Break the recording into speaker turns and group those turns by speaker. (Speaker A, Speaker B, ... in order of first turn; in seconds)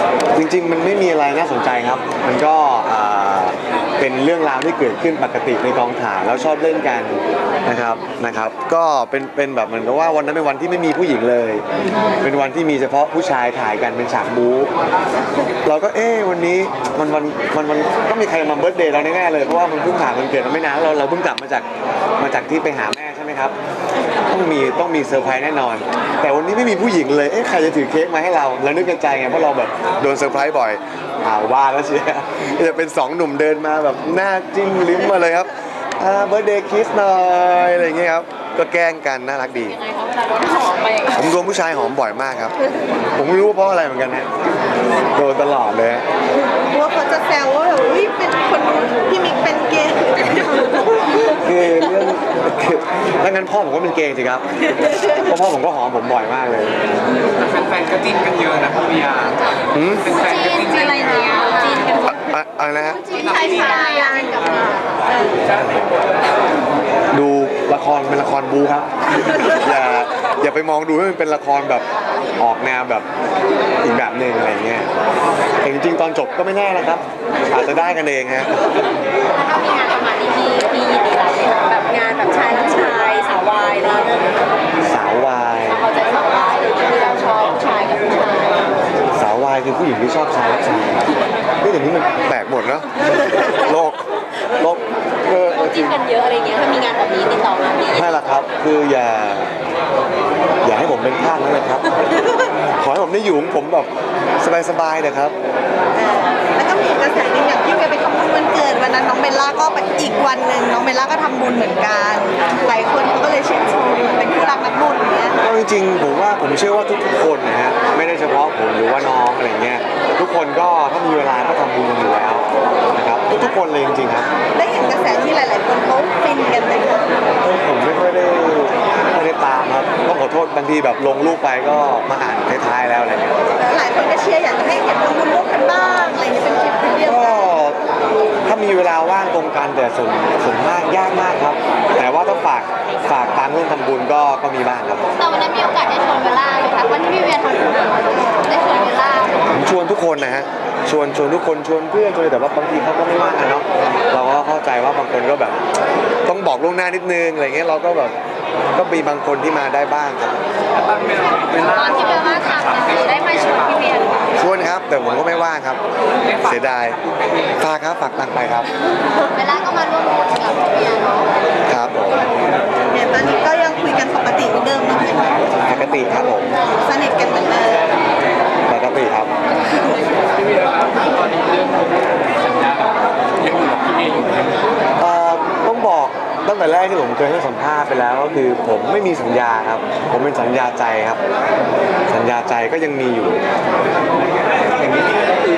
Speaker A: 0.3-11.6, 12.2-14.7, 15.7-21.7, 22.2-23.6, 24.3-39.8, 41.1-42.5, 43.2-44.3, 45.1-46.0, 51.1-56.9, 59.7-60.2, 62.1-63.1, 65.4-66.0, 67.1-71.8, 72.4-73.1, 73.8-74.9, 75.6-78.7, 84.8-85.8, 89.2-96.0, 97.9-99.5, 100.6-102.1, 102.8-105.3, 115.4-124.3, 127.4-133.4, 137.0-137.8, 138.5-145.0, 149.5-155.6, 156.2-158.2, 158.7-160.4, 164.4-165.8, 166.4-167.0, 167.6-168.7, 171.7-172.3, 175.6-176.5, 178.7-179.3, 185.0-191.2, 192.1-193.4
Speaker B: 39.8-41.2, 60.2-62.0, 63.1-64.7, 79.4-84.2, 85.7-88.6, 95.3-98.2, 145.2-149.5, 161.6-164.2, 169.2-171.3
Speaker C: 46.7-50.8, 63.3-64.5, 105.9-115.4, 124.5-127.1, 133.6-137.5, 172.9-175.6, 176.8-177.9
Speaker D: 57.2-61.7, 63.1-64.7, 160.7-163.8, 166.2-167.6, 180.2-184.7, 194.8-195.4